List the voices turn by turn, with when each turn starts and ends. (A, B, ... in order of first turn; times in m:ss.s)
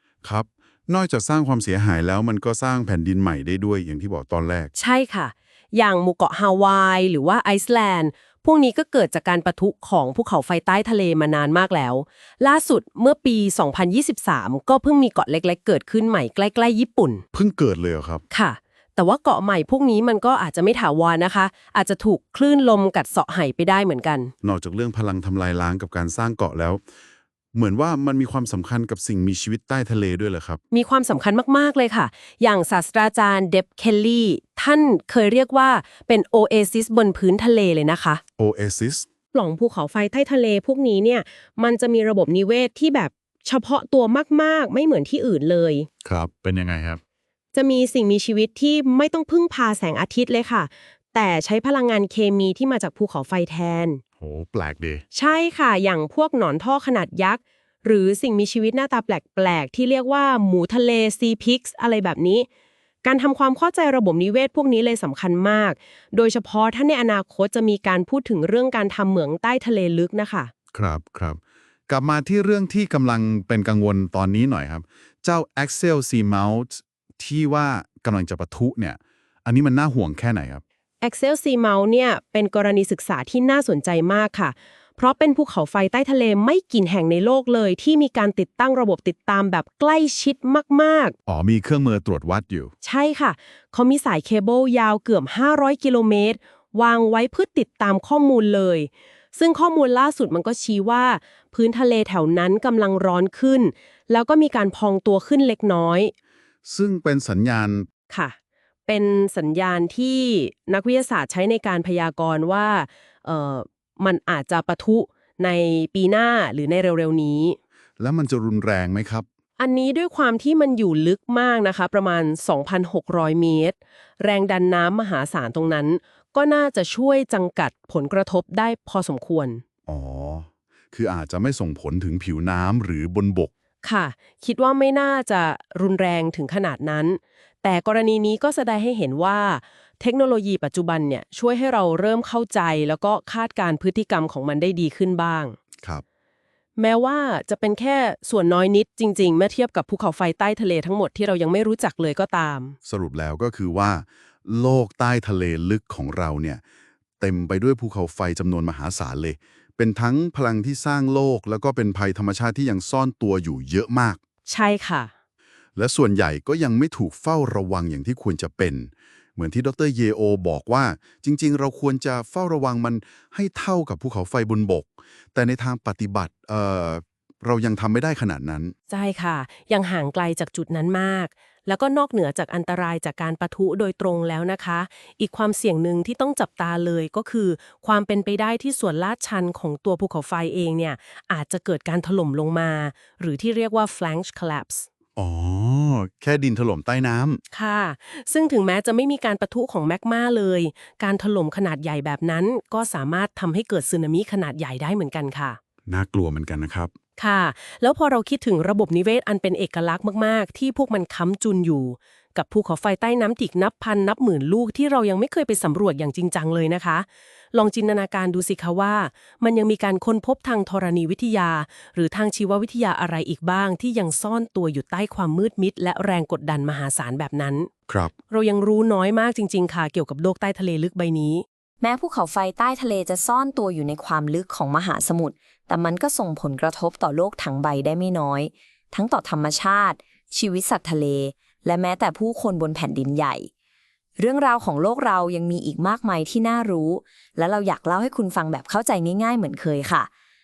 0:00.2-0:04.7 A
0:04.8-0:17.2 B
0:17.3-0:18.2 A
0:18.3-0:24.3 B
0:24.4-0:26.8 A
0:27.5-0:30.6 A
0:30.7-0:38.2 B
0:38.4-0:39.1 A
0:39.3-0:45.9 B
0:46.0-0:47.0 A
0:47.5-0:54.0 B
0:54.2-0:55.0 A
0:55.1-1:02.5 B
1:03.0-1:10.5 B
1:10.7-1:20.6 A
1:21.0-1:31.2 B
1:31.3-1:32.7 A
1:32.8-1:46.1 B
1:46.6-1:47.9 A
1:48.1-1:48.4 B
1:48.9-1:57.6 B
1:58.0-1:59.3 A
1:59.6-2:09.6 B
2:09.9-2:13.5 A
2:13.8-2:25.6 B
2:26.8-2:32.8 B
2:32.9-2:36.6 A
2:37.2-2:44.2 A
2:44.5-2:45.1 B
2:45.8-2:58.7 A
2:58.9-3:14.9 B
3:15.2-3:17.4 A
3:17.5-3:25.6 B
3:25.9-3:26.9 A
3:27.2-3:47.7 B
3:48.3-3:51.4 B
3:51.8-4:03.5 C
4:04.2-4:10.1 C